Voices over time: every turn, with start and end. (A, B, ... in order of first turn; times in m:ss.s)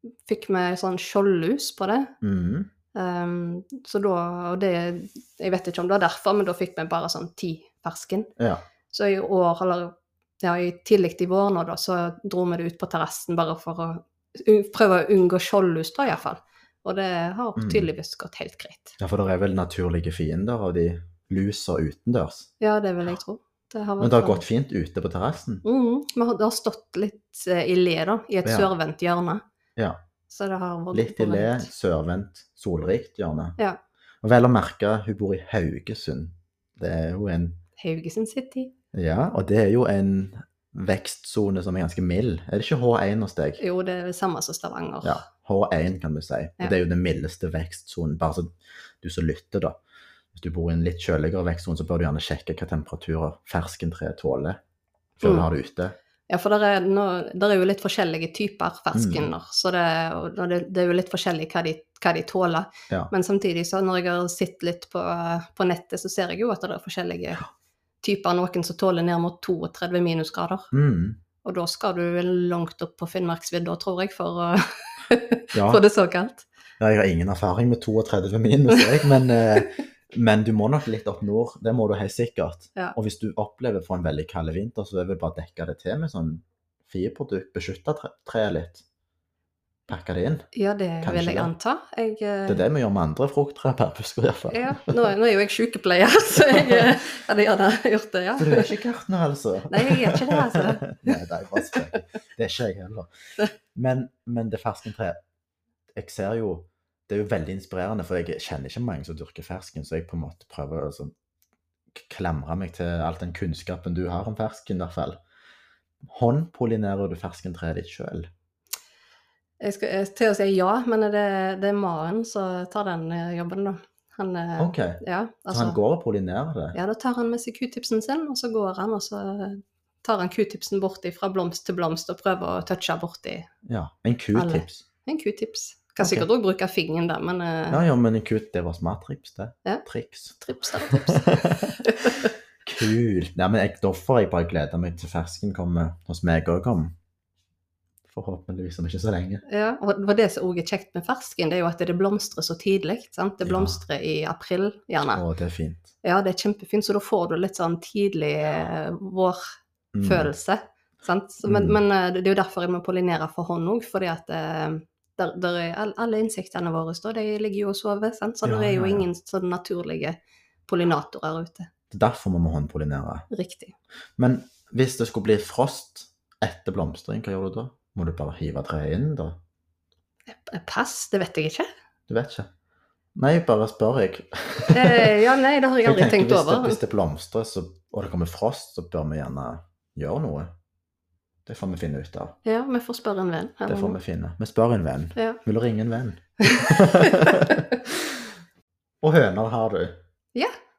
0:00.2-0:02.1 A
0:02.2-0:02.7 B
0:02.9-0:08.3 A
0:08.4-0:08.6 B
0:08.9-0:19.0 A
0:17.6-0:17.9 B
0:19.0-0:22.5 B
0:22.6-0:24.4 A
0:24.0-0:25.6 B
0:25.6-0:29.4 A
0:28.4-0:28.7 B
0:30.3-0:31.7 A
0:30.9-0:33.6 B
0:34.2-0:37.6 B
0:37.8-0:38.7 A
0:38.9-0:43.6 B
0:43.6-0:45.2 A
0:45.0-0:49.8 B
0:50.3-0:54.6 B
0:55.2-0:56.0 B
0:56.3-1:07.4 A
0:58.9-0:59.3 B
1:08.0-1:10.7 A
1:10.7-1:11.2 B
1:11.4-1:16.4 A
1:15.5-1:15.8 B
1:16.8-1:28.8 B
1:18.7-1:19.7 A
1:29.9-1:30.4 B
1:30.5-1:32.6 A
1:31.0-1:31.5 B
1:32.5-1:35.1 B
1:34.5-1:38.7 A
1:36.5-1:36.9 B
1:38.4-1:43.1 B
1:39.7-1:42.0 A
1:43.7-1:45.2 B
1:45.9-1:51.1 B
1:51.9-1:55.2 B
1:56.0-1:58.3 B
1:59.6-2:05.8 A
2:04.6-2:06.8 B
2:06.7-2:13.5 A
2:13.6-2:14.8 B
2:14.4-2:17.8 A
2:16.0-2:16.3 B
2:17.7-2:26.9 B
2:20.4-2:22.3 A
2:28.1-2:29.4 B
2:29.5-2:35.2 A
2:33.4-2:33.8 B
2:35.1-2:35.9 B
2:36.0-2:39.5 A
2:39.9-2:40.3 B
2:40.0-2:51.7 A
2:41.4-2:41.8 B
2:48.4-2:49.1 B
2:51.9-2:53.2 B
2:53.3-2:53.7 A
2:54.2-2:59.4 B
3:00.3-3:01.7 A
3:02.1-3:02.5 B
3:03.2-3:05.1 B
3:04.7-3:06.8 A
3:05.8-3:10.5 B
3:11.4-3:12.4 B
3:12.4-3:14.0 A
3:13.6-3:18.2 B
3:16.4-3:17.8 A
3:19.0-3:20.0 B